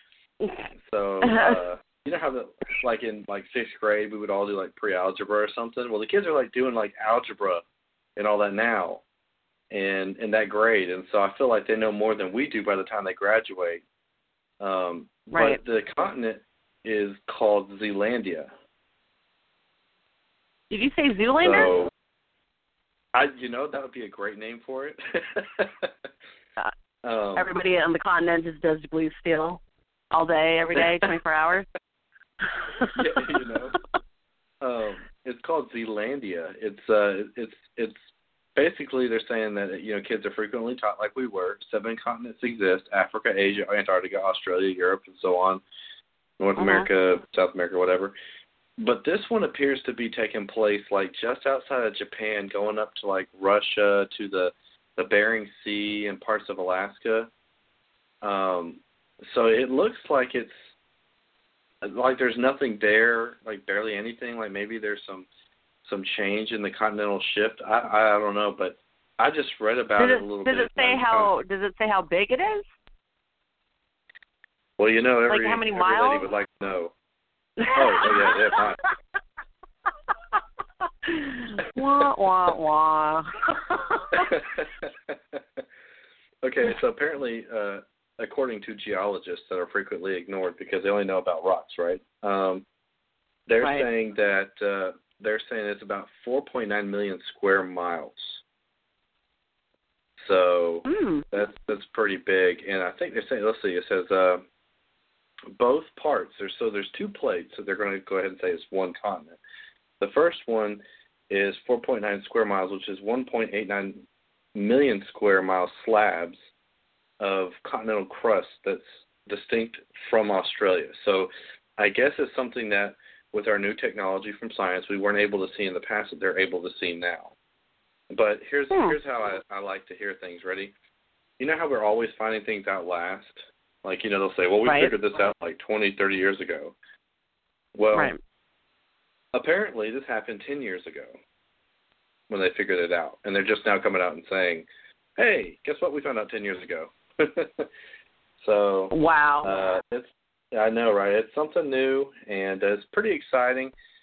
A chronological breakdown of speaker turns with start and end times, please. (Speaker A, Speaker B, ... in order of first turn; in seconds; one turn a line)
Speaker A: 0.4-0.7
Speaker B: 0.8-7.6
Speaker A: 1.2-1.6
Speaker B: 8.2-9.0
Speaker B: 9.7-13.8
Speaker B: 14.6-18.5
Speaker A: 15.3-15.6
Speaker A: 20.7-21.7
Speaker B: 21.4-21.9
Speaker B: 23.1-26.1
Speaker B: 27.0-27.5
Speaker A: 27.3-29.6
Speaker A: 30.1-31.7
Speaker A: 32.5-33.8
Speaker B: 32.9-33.8
Speaker B: 34.6-38.0
Speaker B: 38.5-45.6
Speaker B: 46.4-48.1
Speaker A: 46.6-46.9
Speaker B: 48.8-57.3
Speaker B: 58.2-60.5
Speaker B: 61.8-65.3
Speaker B: 65.8-71.3
Speaker A: 70.0-72.7
Speaker B: 74.8-76.9
Speaker A: 75.3-76.3
Speaker A: 77.6-78.6
Speaker B: 77.7-78.8
Speaker A: 81.0-84.3
Speaker B: 84.1-85.6
Speaker B: 86.4-92.6
Speaker B: 93.5-98.4
Speaker A: 93.6-93.9
Speaker B: 100.2-104.4
Speaker A: 100.8-101.2
Speaker B: 105.5-109.4
Speaker B: 110.0-116.4
Speaker B: 117.2-127.3
Speaker B: 128.1-130.7
Speaker A: 128.7-129.0
Speaker B: 131.4-136.7
Speaker A: 134.6-134.9
Speaker B: 137.7-138.1
Speaker B: 139.3-141.2
Speaker B: 142.3-144.7
Speaker B: 145.2-147.7
Speaker B: 148.4-153.7
Speaker A: 148.9-149.6